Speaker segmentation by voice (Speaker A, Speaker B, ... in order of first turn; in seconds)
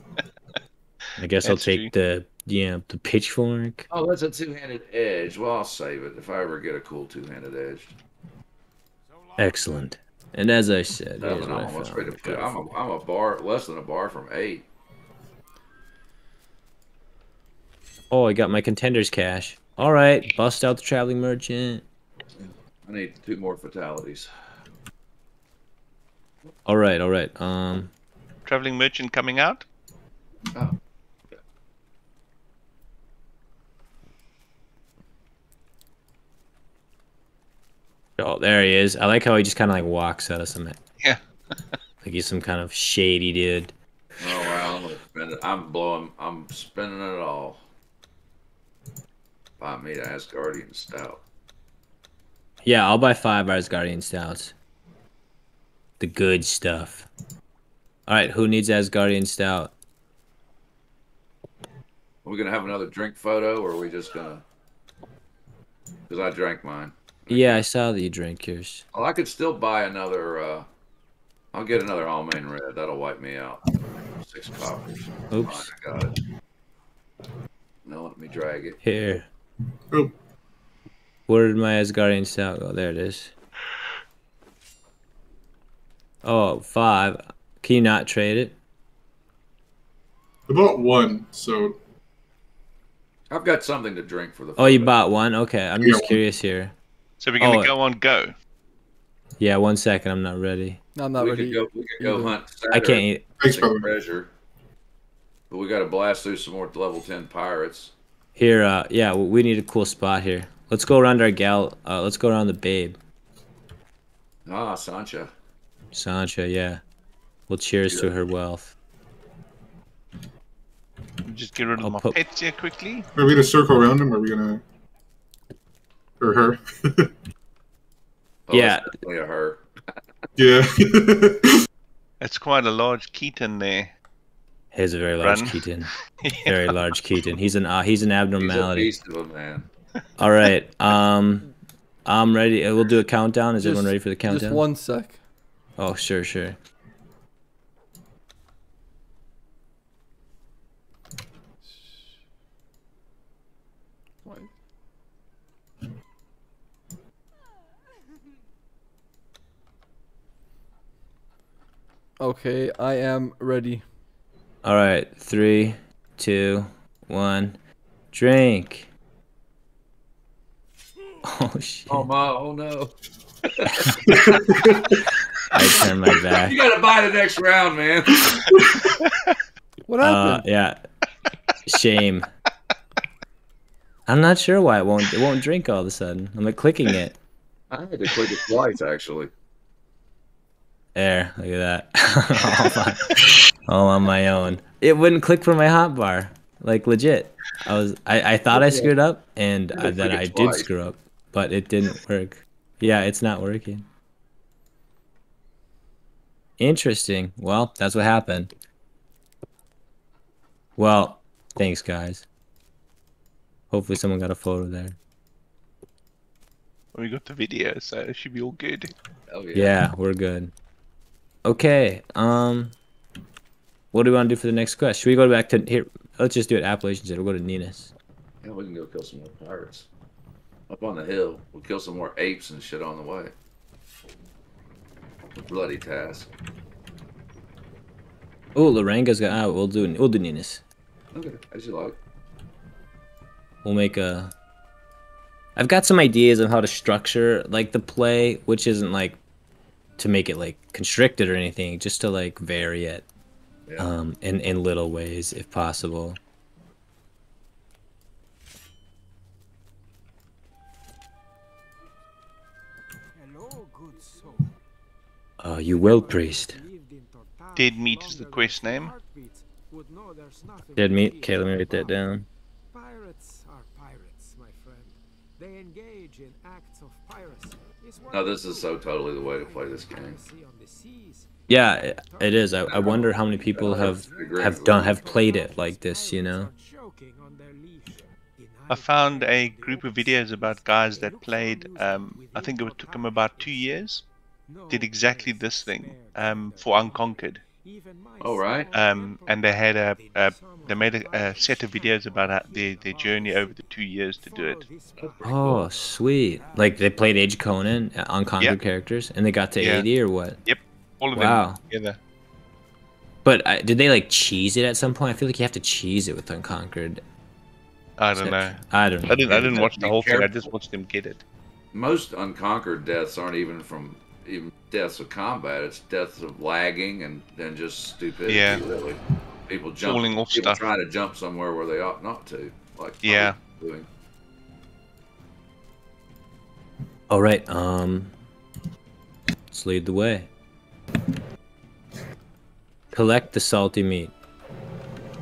Speaker A: 1.2-3.9, 9.4-12.8, 18.1-21.9, 26.7-27.9, 38.2-40.8, 42.0-43.7, 52.6-54.5, 56.0-57.1, 58.1-59.7, 67.3-68.8, 75.3-75.7, 78.8-79.3, 81.3-83.3, 86.2-88.6, 94.6-96.7, 97.4-97.7, 99.4-100.8, 102.7-103.3, 108.4-113.0, 115.9-116.8, 117.5-118.7, 121.8-122.2, 128.5-129.0, 134.7-135.9, 136.4-138.9, 140.2-141.5, 142.1-144.6, 145.8-146.6, 164.6-167.6, 168.1-168.9, 171.2-172.1, 175.5-176.6, 180.0-180.8, 181.7-182.3, 184.1-187.2, 190.9-203.9, 206.6-208.5, 210.8-212.3, 213.7-215.0, 219.5-220.5, 221.4-222.8, 223.9-227.9, 238.6-240.6, 243.6-244.3, 245.6-249.2, 250.0-253.1, 253.8-256.2, 265.4-266.6, 270.8-272.3, 281.5-286.5, 305.2-310.4, 311.1-311.6, 313.2-317.0, 318.1-319.5, 337.1-338.1, 339.5-340.3, 342.9-344.1
Speaker B: 1.3-1.9, 28.5-29.6, 97.2-98.4, 121.3-123.1, 132.2-133.9, 135.2-136.9, 179.0-179.3, 216.9-218.9, 267.6-268.9, 288.7-294.1, 294.7-297.4, 298.7-304.7, 309.6-309.9, 310.4-312.0, 318.0-321.2, 328.3-328.6, 329.8-330.6, 333.0-333.4
Speaker C: 3.9-7.9, 11.2-14.7, 22.4-24.3, 44.2-47.6, 49.6-51.2, 62.2-64.4, 66.1-67.6, 68.9-70.7, 71.5-73.6, 74.2-76.1, 77.8-78.8, 93.3-95.0, 101.2-104.3, 105.5-107.9, 114.5-115.3, 128.5-129.6, 138.4-139.7, 171.9-172.9, 173.5-175.0, 176.2-178.4, 187.7-189.3, 198.5-198.9, 199.7-200.7, 219.3-219.8, 228.4-229.9, 230.7-233.3, 235.4-236.3, 241.2-242.0, 253.7-254.0, 278.1-280.2, 282.6-285.1, 298.2-298.7, 305.0-305.7, 319.2-320.3, 321.7-333.9
Speaker D: 9.1-9.9, 11.4-11.7, 263.1-264.6, 265.8-271.9, 272.7-278.8, 279.4-281.3, 282.0-283.0, 283.5-293.7, 294.5-306.9
Speaker E: 90.5-91.8, 95.8-96.2, 103.4-103.9, 123.1-124.6, 126.2-127.1, 130.4-131.5, 174.1-174.8
Speaker F: 101.0-102.3, 143.6-145.2, 154.2-154.5, 162.2-163.8, 179.9-180.4